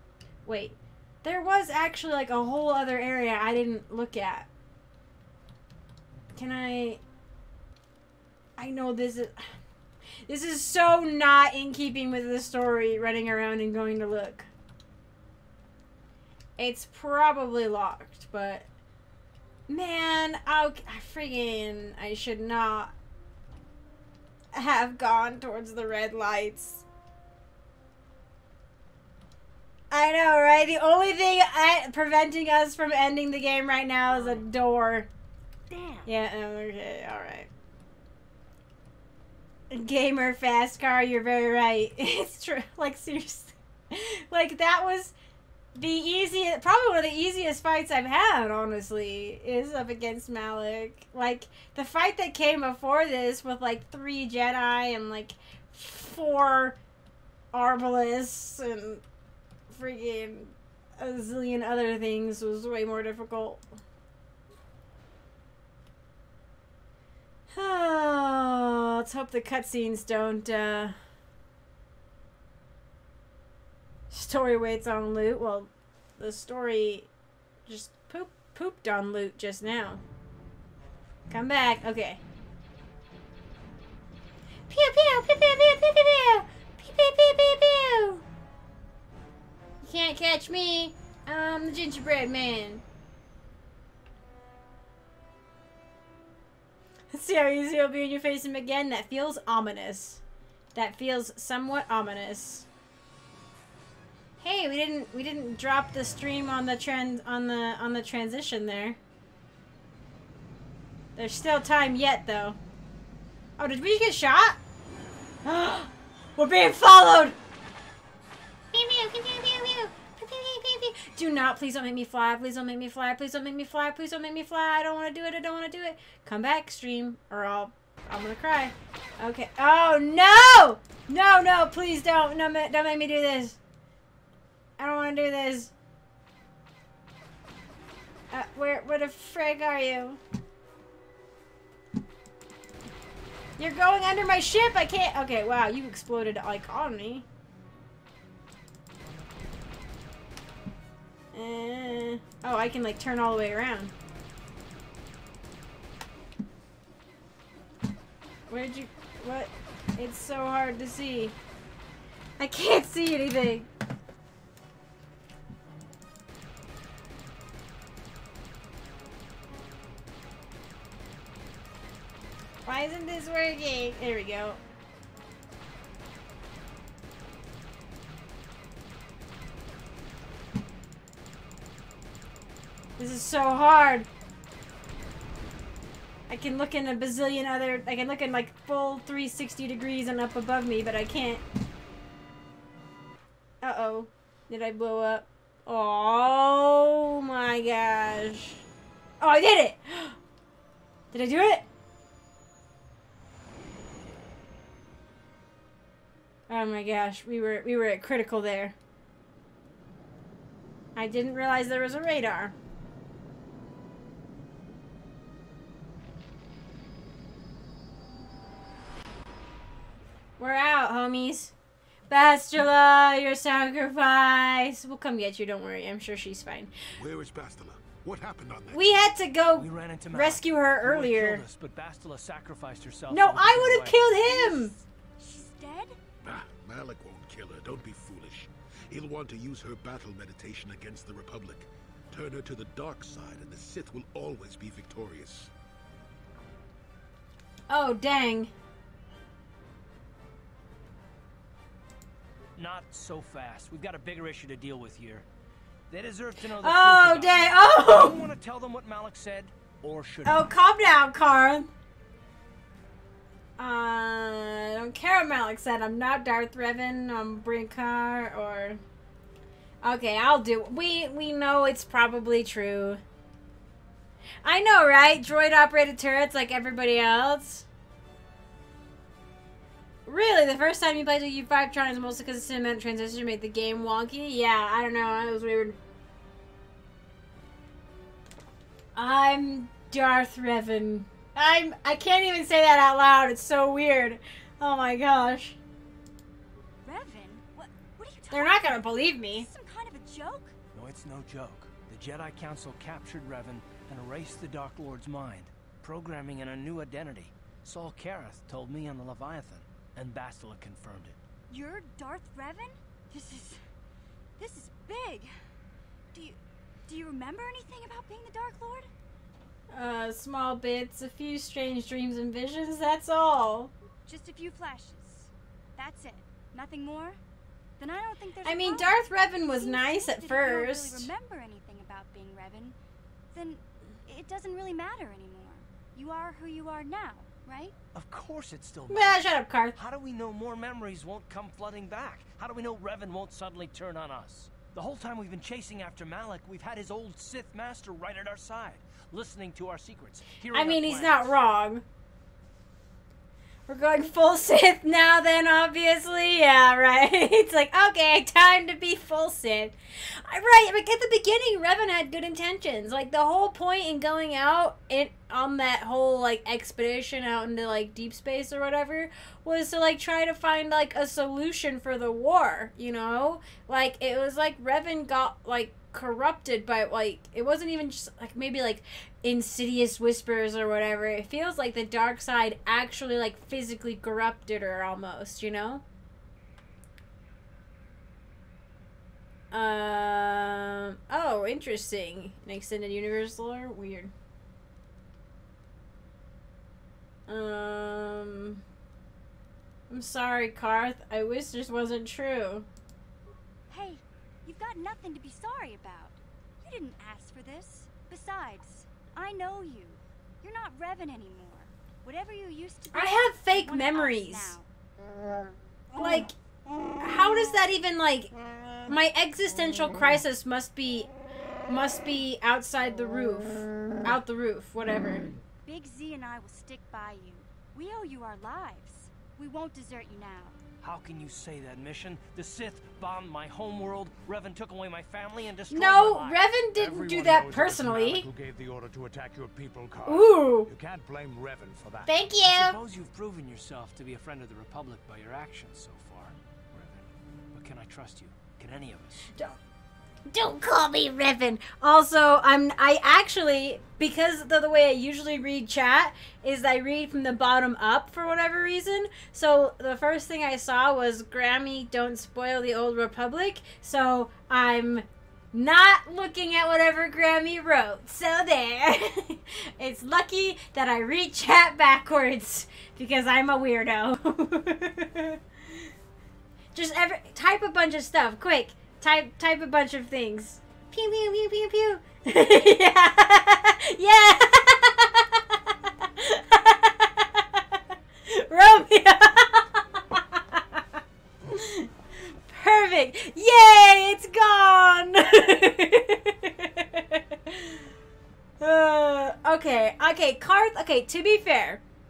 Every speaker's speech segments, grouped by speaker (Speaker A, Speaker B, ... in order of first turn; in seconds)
Speaker A: 0.4-4.5, 6.3-7.0, 8.6-9.5, 10.3-14.5, 16.6-18.7, 19.7-22.9, 24.5-26.8, 29.9-35.1, 36.0-37.5, 39.7-45.1, 45.7-56.8, 57.5-59.0, 59.7-63.6, 67.5-71.0, 74.1-77.1, 77.7-80.0, 81.3-82.2, 84.7-88.2, 89.8-92.8, 97.1-100.2, 100.7-102.7, 104.4-109.0, 111.2-112.6, 113.6-114.6, 115.4-117.3, 118.7-133.6, 134.8-135.7, 138.3-140.2, 143.6-147.2, 151.3-153.9, 158.5-161.3, 162.4-163.7, 172.7-174.6, 183.0-184.1, 186.3-191.4, 193.6-198.6, 199.2-200.2, 201.1-201.6, 206.5-208.8, 210.9-212.5, 220.4-221.5, 222.1-226.7, 228.7-231.4, 233.1-234.7, 247.7-248.5, 256.6-258.2, 260.2-261.7, 263.6-268.8, 269.8-273.0, 274.4-277.6, 280.1-285.8, 288.9-295.6, 298.3-299.5, 319.7-323.7, 328.4-331.1, 338.9-339.8, 350.5-351.8, 353.7-385.8, 389.5-394.1, 397.3-398.6, 399.9-402.7, 412.9-414.6, 415.9-416.3, 417.0-418.3, 418.9-421.1, 421.7-425.3, 435.7-438.2, 440.1-440.7, 442.1-442.8, 450.3-475.9, 476.7-490.8, 491.5-491.9, 492.5-497.8, 498.6-501.8
Speaker B: 34.1-34.4, 35.7-36.0, 234.2-236.0, 296.8-300.5, 311.5-313.6, 314.4-315.3, 316.1-318.9, 324.1-327.2, 327.8-332.8, 333.3-337.7, 403.7-414.7, 425.6-430.6
Speaker C: 227.0-229.1, 236.2-245.5
Speaker D: 229.6-234.1, 252.6-255.2, 255.9-260.5, 300.7-311.2, 337.9-351.3, 430.8-436.4, 442.4-449.2
Speaker E: 436.8-442.1